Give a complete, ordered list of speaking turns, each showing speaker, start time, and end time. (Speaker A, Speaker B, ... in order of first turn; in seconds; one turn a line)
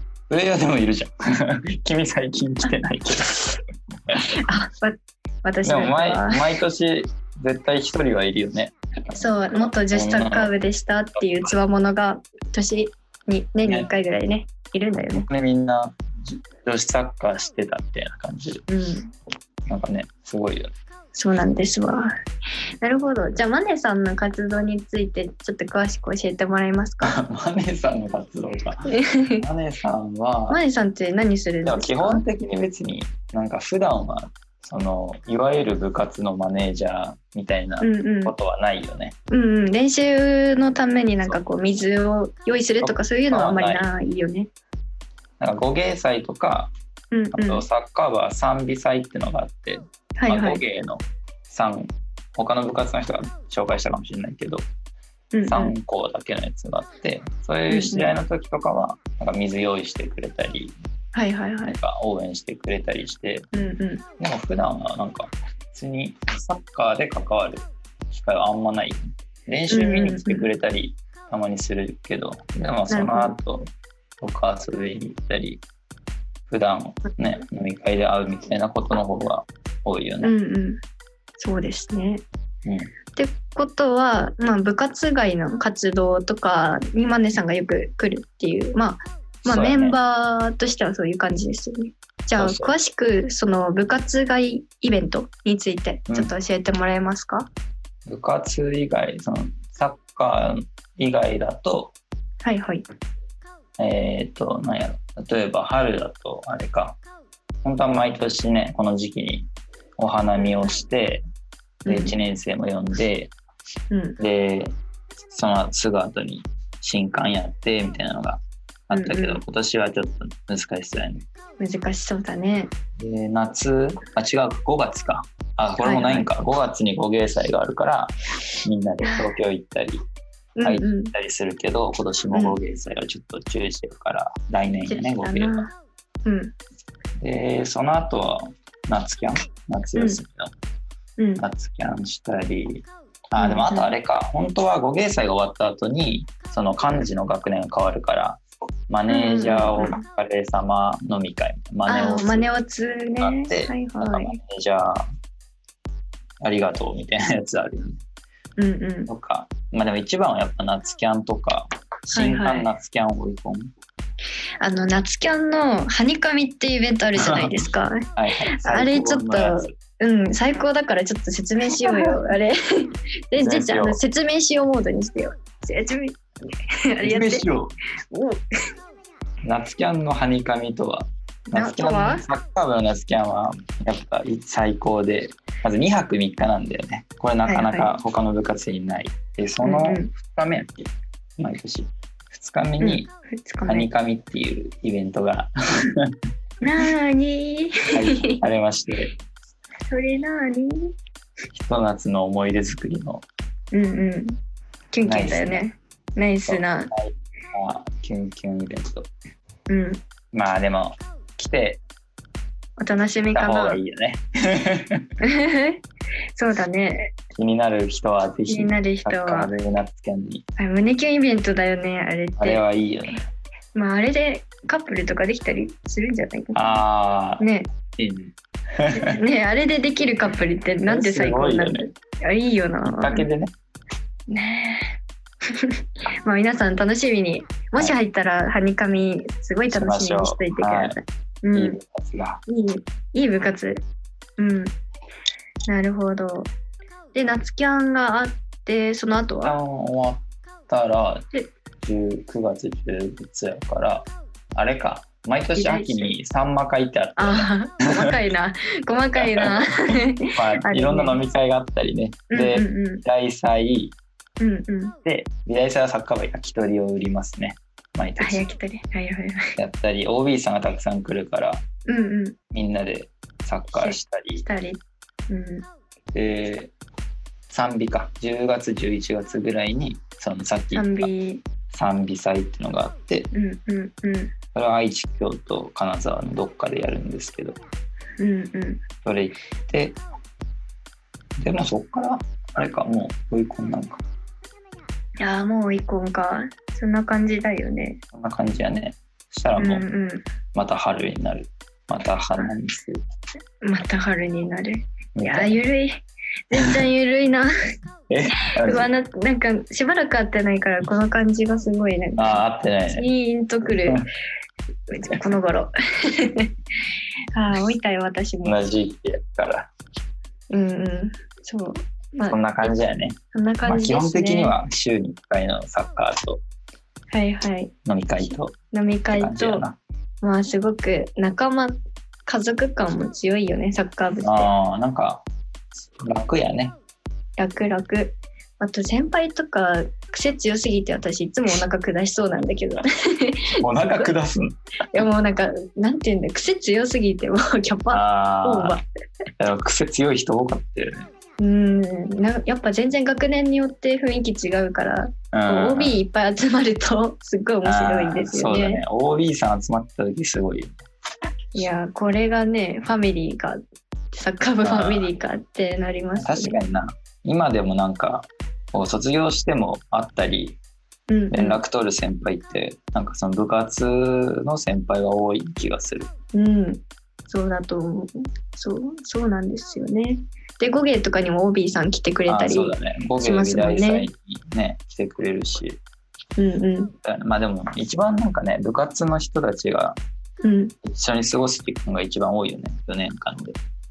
Speaker A: 0.3-4.2
Speaker B: 4.4-6.4
Speaker A: 5.6-10.5
Speaker B: 9.1-15.2
Speaker A: 13.6-13.9
Speaker A: 15.1-18.6
Speaker B: 18.7-19.1
Speaker A: 19.7-20.7
Speaker B: 21.1-22.1
Speaker B: 22.8-27.2
Speaker A: 27.0-30.6
Speaker B: 28.9-29.4
Speaker B: 30.5-32.2
Speaker A: 31.6-39.1
Speaker B: 37.8-38.4
Speaker B: 39.3-44.5
Speaker A: 42.8-43.9
Speaker A: 45.4-46.7
Speaker B: 47.1-47.7
Speaker A: 47.3-54.6
Speaker B: 50.2-50.6
Speaker B: 55.3-55.7
Speaker A: 55.5-60.7
Speaker B: 57.7-58.1
Speaker B: 61.1-61.8
Speaker A: 61.7-63.5
Speaker B: 63.5-64.0
Speaker A: 64.2-73.7
Speaker B: 69.7-70.5
Speaker B: 72.9-73.4
Speaker A: 74.2-75.6
Speaker A: 76.5-80.3
Speaker B: 80.2-80.8
Speaker B: 81.4-82.2
Speaker A: 82.7-82.9
Speaker B: 83.2-97.5
Speaker A: 89.4-90.0
Speaker A: 92.4-92.7
Speaker A: 98.1-102.0
Speaker B: 102.4-102.8
Speaker A: 103.8-107.0
Speaker A: 107.6-111.2
Speaker B: 111.8-112.2
Speaker A: 111.9-113.3
Speaker B: 113.9-114.2
Speaker A: 114.2-114.7
Speaker A: 115.3-121.3
Speaker B: 118.9-119.4
Speaker B: 121.6-122.7
Speaker A: 123.0-130.0
Speaker B: 125.8-126.3
Speaker B: 130.6-131.1
Speaker A: 130.6-135.7
Speaker B: 134.9-135.7
Speaker B: 136.2-136.5
Speaker A: 137.2-140.5
Speaker B: 139.9-140.2
Speaker B: 141.2-141.4
Speaker A: 141.4-152.5
Speaker B: 143.4-143.9
Speaker B: 149.1-150.0
Speaker B: 151.9-154.4
Speaker A: 153.2-155.1
Speaker A: 156.4-158.0
Speaker B: 158.6-159.1
Speaker A: 159.1-163.7
Speaker B: 162.1-162.7
Speaker B: 164.6-168.1
Speaker A: 167.2-167.5
Speaker A: 168.2-169.7
Speaker B: 168.6-176.2
Speaker A: 171.7-172.2
Speaker A: 173.4-174.0
Speaker B: 176.9-177.5
Speaker A: 177.0-177.8
Speaker B: 178.1-178.4
Speaker A: 179.4-193.1
Speaker B: 181.5-182.2
Speaker B: 187.5-187.9
Speaker B: 189.6-190.1
Speaker B: 192.8-193.9
Speaker A: 193.7-196.1
Speaker B: 196.6-198.4
Speaker A: 197.9-199.1
Speaker B: 199.9-200.9
Speaker A: 201.5-203.2
Speaker B: 203.7-204.4
Speaker B: 204.9-206.9
Speaker A: 205.0-205.7
Speaker A: 206.5-209.1
Speaker B: 209.7-210.0
Speaker A: 210.3-211.8
Speaker B: 212.8-213.8
Speaker A: 213.3-215.0
Speaker B: 215.2-215.8
Speaker B: 216.4-217.1
Speaker A: 217.3-220.4
Speaker B: 218.5-219.5
Speaker B: 220.6-222.6
Speaker A: 222.4-223.2
Speaker B: 223.8-226.8
Speaker A: 226.6-227.4
Speaker B: 227.4-227.7
Speaker A: 228.0-229.0
Speaker B: 229.0-233.3
Speaker A: 230.9-231.9
Speaker A: 232.9-233.5
Speaker B: 234.3-234.9
Speaker B: 236.2-241.8
Speaker A: 239.7-241.0
Speaker A: 241.5-242.4
Speaker B: 242.5-243.8
Speaker B: 244.4-244.8
Speaker B: 245.7-246.5
Speaker B: 247.1-249.6
Speaker A: 249.4-251.3
Speaker A: 251.8-257.5
Speaker B: 255.6-256.1
Speaker B: 257.2-261.2
Speaker A: 259.2-264.0
Speaker B: 262.3-263.0
Speaker B: 264.4-265.0
Speaker A: 265.1-268.4
Speaker B: 268.2-269.4
Speaker A: 269.6-271.6
Speaker B: 271.9-272.4
Speaker A: 272.5-274.4
Speaker B: 273.7-275.7
Speaker A: 276.1-276.7
Speaker A: 277.5-281.1
Speaker B: 280.7-281.4
Speaker A: 281.7-283.3
Speaker B: 283.3-284.3
Speaker A: 284.5-287.6
Speaker B: 288.2-288.8
Speaker A: 289.0-290.0
Speaker A: 291.4-294.0
Speaker B: 295.2-298.0
Speaker A: 298.1-299.9
Speaker B: 299.6-300.2
Speaker A: 300.6-303.0
Speaker B: 303.6-306.0
Speaker A: 305.2-305.6
Speaker B: 306.5-307.5
Speaker A: 306.6-306.8
Speaker A: 308.1-308.9
Speaker B: 308.4-314.0
Speaker A: 312.2-313.1
Speaker A: 313.7-314.1
Speaker B: 314.9-316.5
Speaker B: 317.4-318.6
Speaker A: 318.4-319.7
Speaker B: 320.5-322.7
Speaker A: 322.3-326.4
Speaker B: 323.3-324.6
Speaker B: 327.1-327.7
Speaker A: 327.9-328.6
Speaker B: 328.3-329.6
Speaker A: 329.1-329.8
Speaker B: 330.2-331.7
Speaker B: 332.3-334.5
Speaker A: 334.2-335.2
Speaker A: 336.0-336.7
Speaker B: 337.4-343.4
Speaker A: 343.6-345.1
Speaker B: 344.9-348.9
Speaker A: 347.9-348.8
Speaker A: 349.4-351.1
Speaker B: 351.4-358.8
Speaker A: 355.3-356.0
Speaker A: 357.6-360.8
Speaker B: 361.6-363.6
Speaker B: 364.1-366.6
Speaker A: 364.6-365.1
Speaker A: 366.2-370.6
Speaker B: 371.1-371.6
Speaker A: 371.3-376.1
Speaker B: 376.3-384.1
Speaker A: 382.3-385.8
Speaker B: 386.4-386.9
Speaker A: 387.0-390.0
Speaker B: 390.4-390.7
Speaker A: 390.8-393.6